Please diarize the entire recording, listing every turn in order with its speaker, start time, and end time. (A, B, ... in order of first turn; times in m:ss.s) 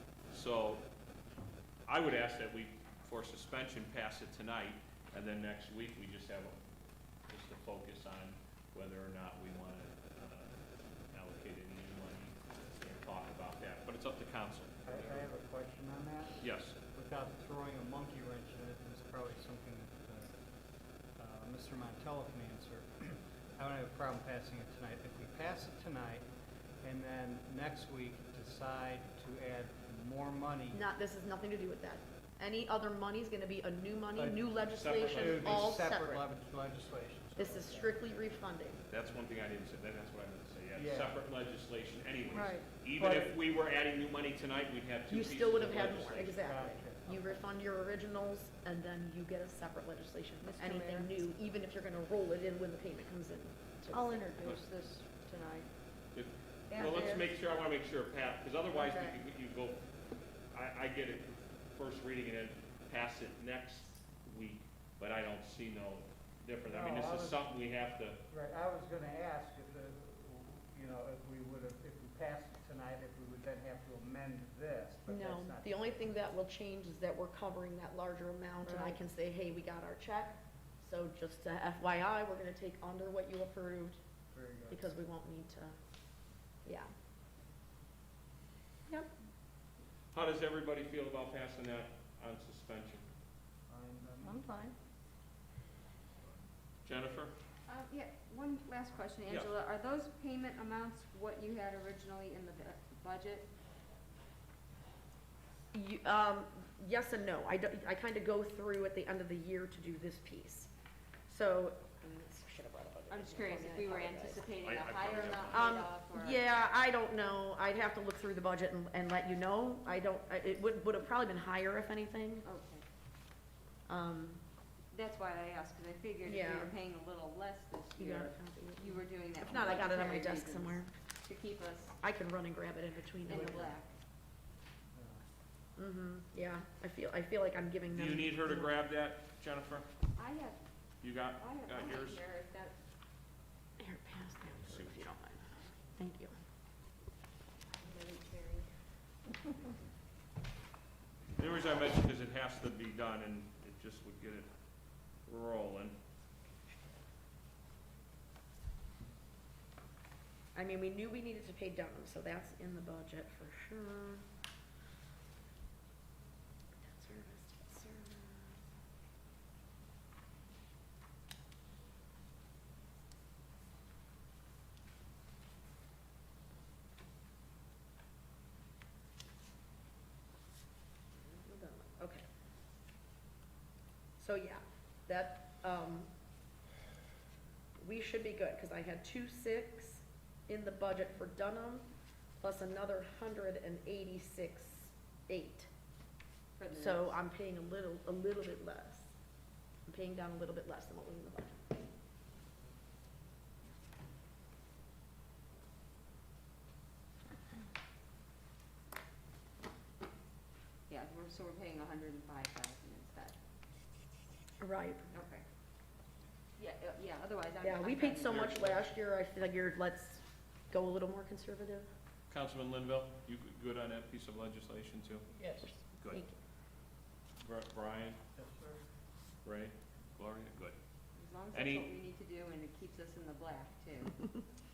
0:00.3-0:00.9 A
0:01.9-0:06.6 A
0:07.3-0:10.5 A
0:11.1-0:15.3 A
0:14.8-0:20.4 B
0:16.4-0:16.8 A
0:21.2-0:26.3 B
0:26.8-0:30.8 B
0:30.7-0:36.2 C
0:34.2-0:38.0 B
0:34.7-0:35.7 A
0:37.4-0:38.8 C
0:38.9-0:46.4 A
0:40.7-0:41.2 B
0:42.3-0:42.7 D
0:42.9-0:43.4 B
0:45.1-0:54.5 C
0:46.1-0:47.2 B
0:50.4-0:51.1 D
0:53.9-0:55.7 D
0:56.1-0:59.8 A
0:56.7-0:57.3 D
0:58.8-0:59.2 D
1:00.5-1:08.2 A
1:06.7-1:07.5 B
1:08.3-1:16.0 B
1:15.1-1:24.0 C
1:18.6-1:19.0 D
1:24.3-1:24.9 B
1:24.7-1:25.8 C
1:26.6-1:26.9 C
1:30.1-1:33.1 A
1:33.7-1:34.4 B
1:34.2-1:34.8 D
1:36.8-1:37.3 A
1:37.7-1:43.5 E
1:45.7-1:50.7 C
1:51.3-1:54.5 C
1:53.1-1:56.4 E
1:54.6-1:55.8 A
1:55.5-2:02.5 C
2:02.4-2:02.8 E
2:03.9-2:04.4 C
2:04.9-2:12.0 E
2:06.2-2:06.7 C
2:08.0-2:10.9 C
2:12.0-2:13.8 C
2:13.2-2:13.9 E
2:14.9-2:15.2 B
2:15.8-2:18.8 C
2:17.9-2:19.9 A
2:20.2-2:20.6 E
2:21.0-2:22.2 A
2:21.4-2:22.8 E
2:23.8-2:26.4 C
2:24.7-2:25.0 A
2:27.8-2:28.7 E
2:31.4-2:34.5 A
2:35.2-2:36.0 A
2:40.6-2:44.2 C
2:46.8-2:48.6 C
3:01.2-3:02.2 C
3:04.2-3:06.1 C
3:07.8-3:11.8 C
3:12.4-3:15.7 C
3:16.6-3:17.2 E
3:16.7-3:19.1 C
3:19.9-3:21.6 C
3:30.9-3:33.4 E
3:34.6-3:35.1 C
3:35.1-3:35.4 E
3:36.6-3:38.6 E
3:37.6-3:41.9 C
3:38.3-3:38.8 A
3:42.3-3:45.3 A
3:45.6-3:46.4 C
3:46.0-3:46.3 A
3:47.4-3:48.2 A
3:48.4-3:48.8 B
3:49.4-3:50.8 A
3:51.2-3:54.3 E
3:51.5-3:51.9 A